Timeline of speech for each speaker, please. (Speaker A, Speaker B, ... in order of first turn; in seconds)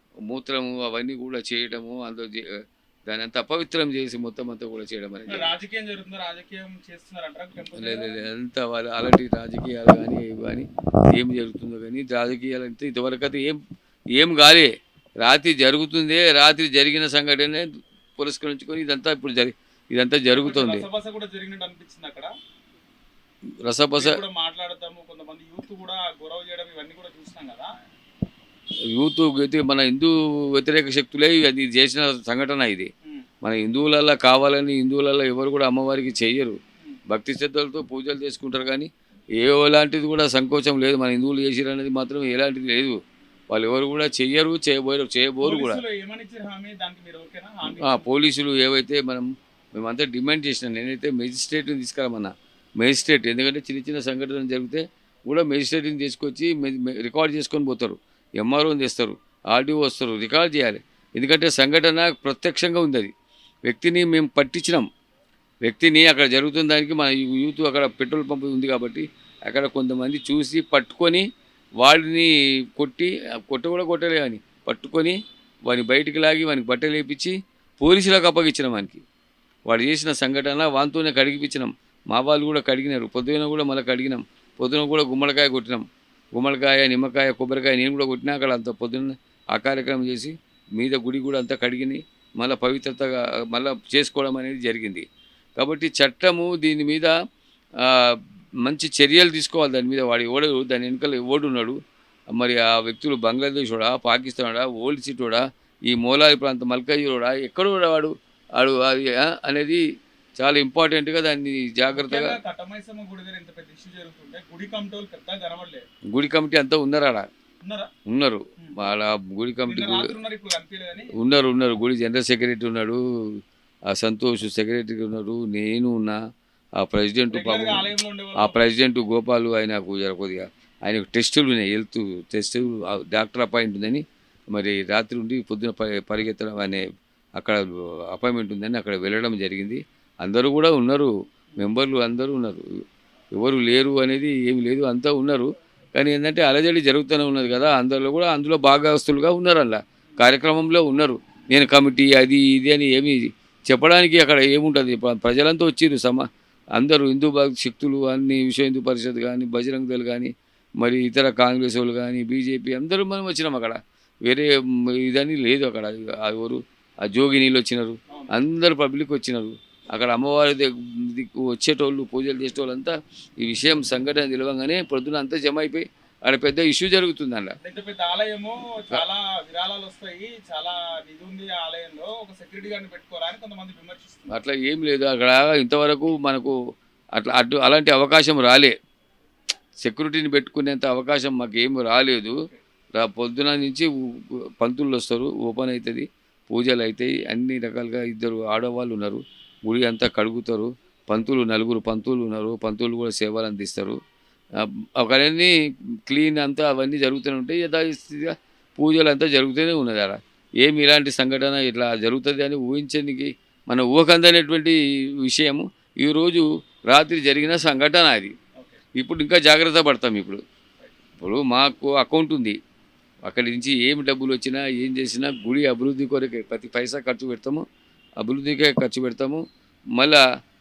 Speaker A: 0.3-5.5, 7.8-13.6, 14.2-14.7, 15.2-17.7, 18.2-20.9, 23.7-24.2, 28.9-32.9, 33.4-36.6, 37.1-38.9, 39.4-43.0, 43.5-45.8, 47.8-63.1, 63.7-64.9, 65.6-71.3, 71.8-79.0, 79.7-95.0, 95.6-97.1, 97.8-101.8, 102.3-109.8, 110.4-112.4, 116.1-117.3, 118.1-120.1, 121.2-123.0, 123.9-126.2, 126.8-136.8, 138.1-142.7, 143.4-177.6, 184.3-186.6, 187.2-188.7, 189.8-192.4, 193.0-193.9, 194.6-204.0, 205.0-205.5, 206.1-218.3, 219.0-220.4, 221.2-222.6, 223.3-227.7, 228.2-229.4, 230.0-230.2
Speaker B: 5.3-8.2, 20.3-22.3, 23.9-27.7, 45.4-48.1, 111.9-115.8, 117.7-117.9, 119.7-121.2, 127.3-128.6, 177.6-184.3